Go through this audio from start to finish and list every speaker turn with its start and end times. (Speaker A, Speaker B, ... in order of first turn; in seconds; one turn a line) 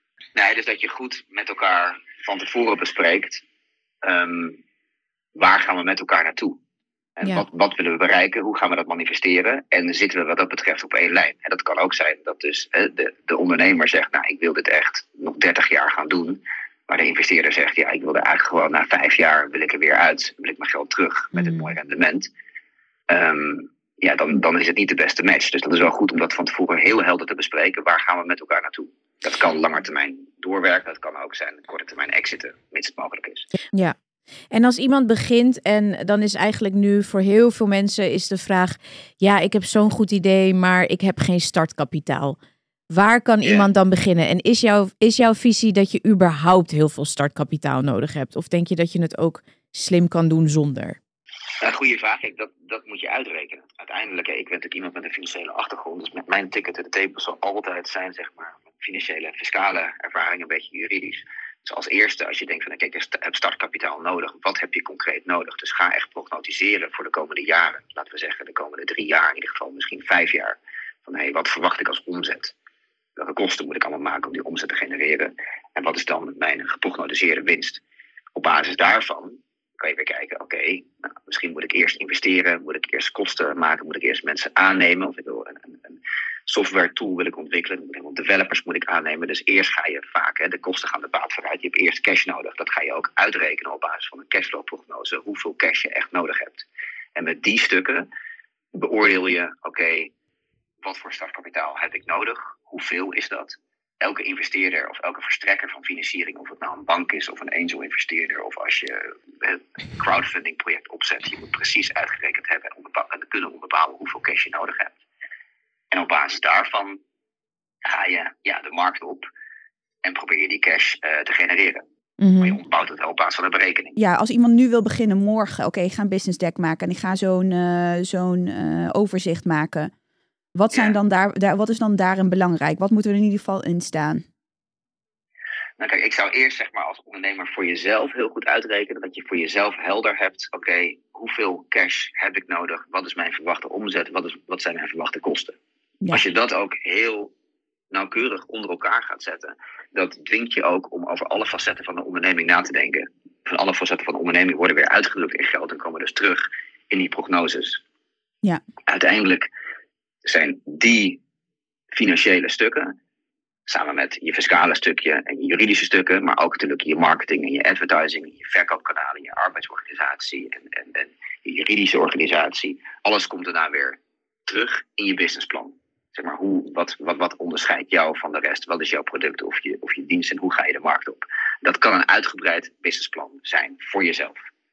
Speaker A: 0.3-3.4
Speaker A: 4.0-4.6
Speaker A: 5.3-6.6
Speaker A: 7.2-22.3
Speaker B: 21.3-21.7
Speaker A: 23.1-33.5
Speaker B: 34.5-42.4
Speaker B: 42.9-51.0
Speaker A: 51.6-72.5
Speaker A: 73.2-77.8
Speaker A: 78.3-98.1
Speaker A: 98.7-100.1
Speaker A: 100.8-115.0
Speaker A: 115.9-117.0
Speaker A: 117.8-119.3
Speaker A: 120.0-121.8
Speaker B: 122.2-122.6
Speaker A: 122.4-124.0
Speaker C: 124.0-129.9
Speaker C: 130.5-134.2
Speaker A: 135.8-145.6
Speaker A: 146.1-147.3
Speaker A: 147.9-157.8
Speaker A: 158.9-159.5
Speaker A: 160.2-161.2
Speaker A: 161.9-162.9
Speaker A: 163.7-184.3